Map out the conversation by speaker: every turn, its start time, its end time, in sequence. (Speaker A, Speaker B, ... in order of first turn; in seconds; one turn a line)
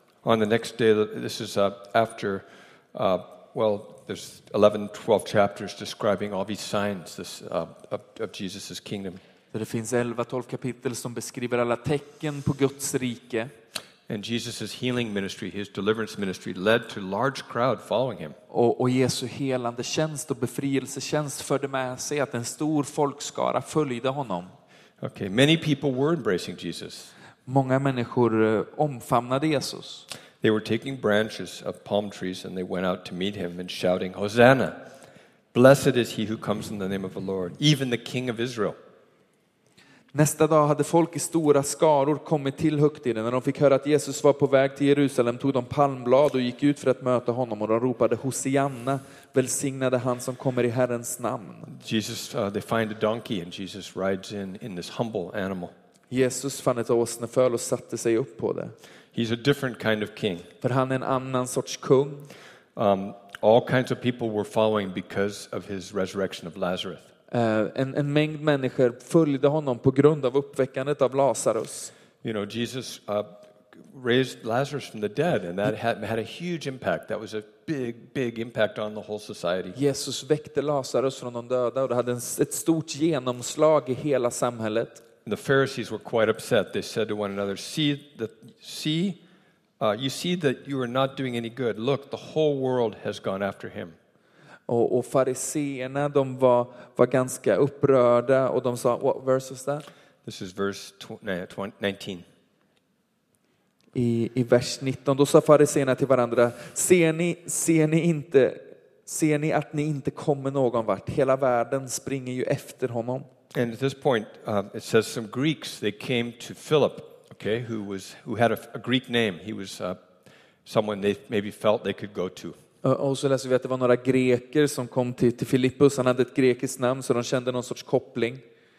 Speaker A: 0.2-9.2
Speaker B: 9.5-13.5
Speaker A: 14.1-18.4
Speaker B: 18.5-24.5
Speaker A: 25.0-27.1
Speaker B: 27.5-30.1
Speaker A: 30.4-34.8
Speaker A: 35.5-38.8
Speaker B: 40.1-51.7
Speaker A: 51.7-55.7
Speaker B: 56.1-58.7
Speaker A: 59.1-60.5
Speaker B: 60.6-62.3
Speaker A: 62.8-67.1
Speaker B: 67.3-71.9
Speaker A: 72.2-79.8
Speaker B: 79.8-85.0
Speaker A: 85.2-89.2
Speaker A: 89.8-94.0
Speaker B: 94.7-99.8
Speaker A: 100.2-102.2
Speaker B: 103.9-113.3
Speaker A: 113.5-120.0
Speaker A: 120.7-122.6
Speaker B: 122.8-128.4